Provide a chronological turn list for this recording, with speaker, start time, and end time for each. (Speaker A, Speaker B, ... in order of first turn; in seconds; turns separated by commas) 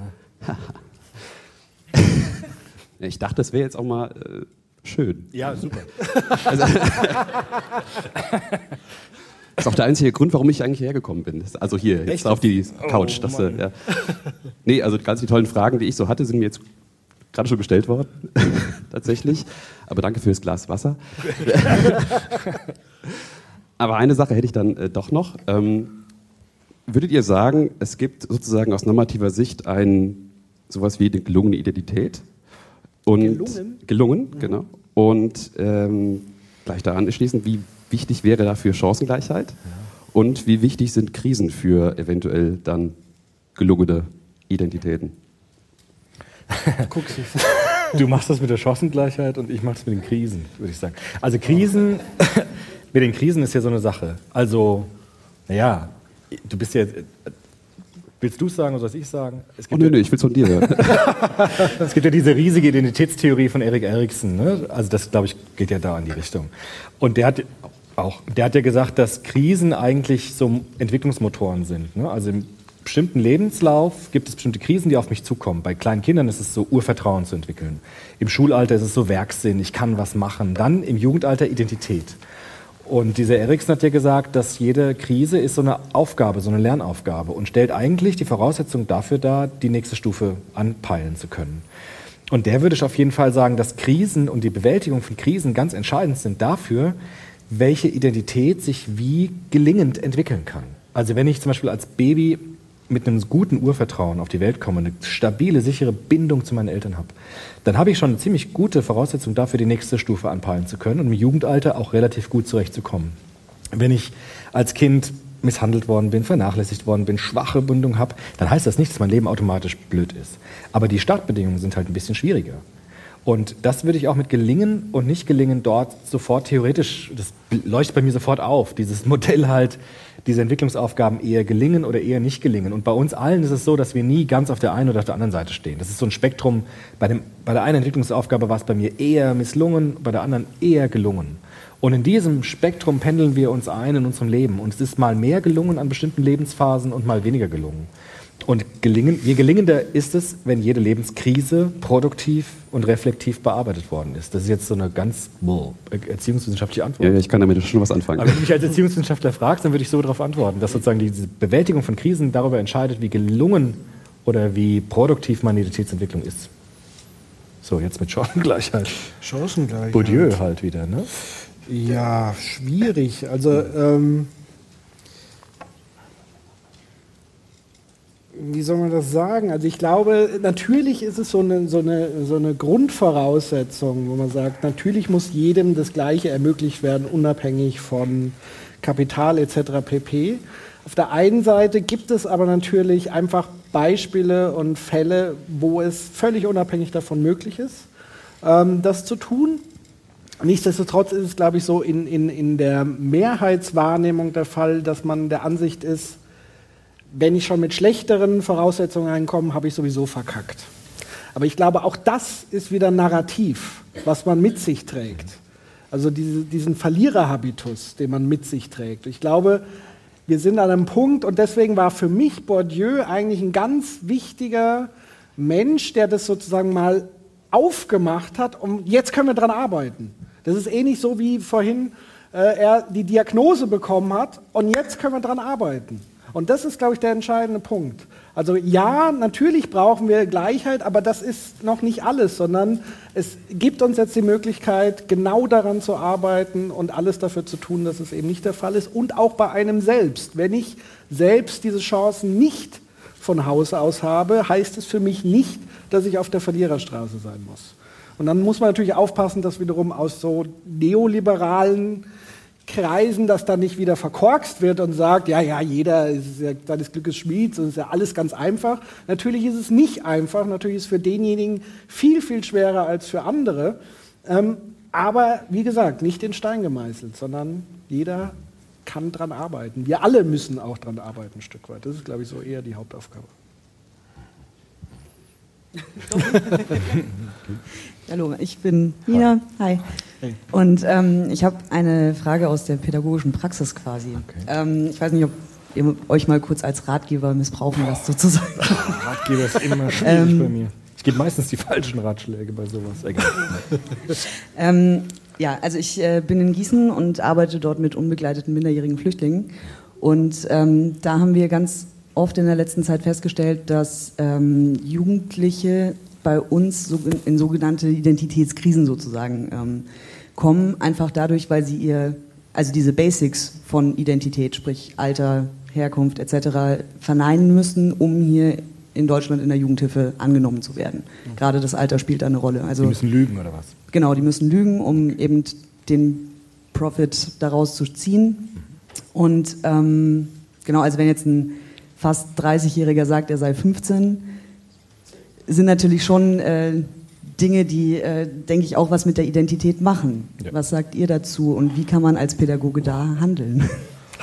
Speaker A: 3.0-7.3, Speaker B: 5.3-5.9, Speaker A: 9.6-16.6, Speaker B: 12.1-13.6, Speaker A: 17.3-22.2, Speaker A: 23.8-26.0, Speaker A: 26.9-32.2, Speaker A: 33.0-42.9, Speaker C: 33.1-33.8, Speaker A: 43.5-45.1, Speaker B: 46.5-46.9, Speaker C: 46.9-47.5, Speaker B: 47.9-54.9, Speaker B: 55.5-57.3, Speaker B: 58.2-82.2, Speaker A: 59.7-61.2, Speaker B: 82.8-91.7, Speaker B: 92.3-97.0, Speaker B: 97.5-113.2, Speaker B: 113.7-122.6, Speaker B: 123.2-147.9, Speaker B: 148.4-157.3, Speaker A: 157.0-158.6, Speaker B: 158.2-166.5, Speaker B: 167.6-169.0, Speaker C: 169.2-170.4, Speaker B: 169.9-171.1, Speaker C: 171.7-174.3, Speaker C: 178.3-197.9, Speaker C: 198.4-199.6, Speaker C: 200.4-206.2, Speaker C: 207.1-210.7, Speaker C: 211.3-215.4, Speaker C: 215.9-219.6, Speaker C: 220.3-262.1, Speaker C: 262.7-278.4, Speaker C: 278.9-283.3, Speaker D: 288.1-289.9, Speaker D: 290.5-299.1, Speaker B: 294.2-294.5, Speaker B: 298.6-303.7, Speaker D: 300.0-300.5, Speaker D: 304.6-333.0, Speaker B: 332.8-333.7, Speaker D: 333.9-338.5, Speaker D: 339.1-344.3, Speaker D: 345.5-353.9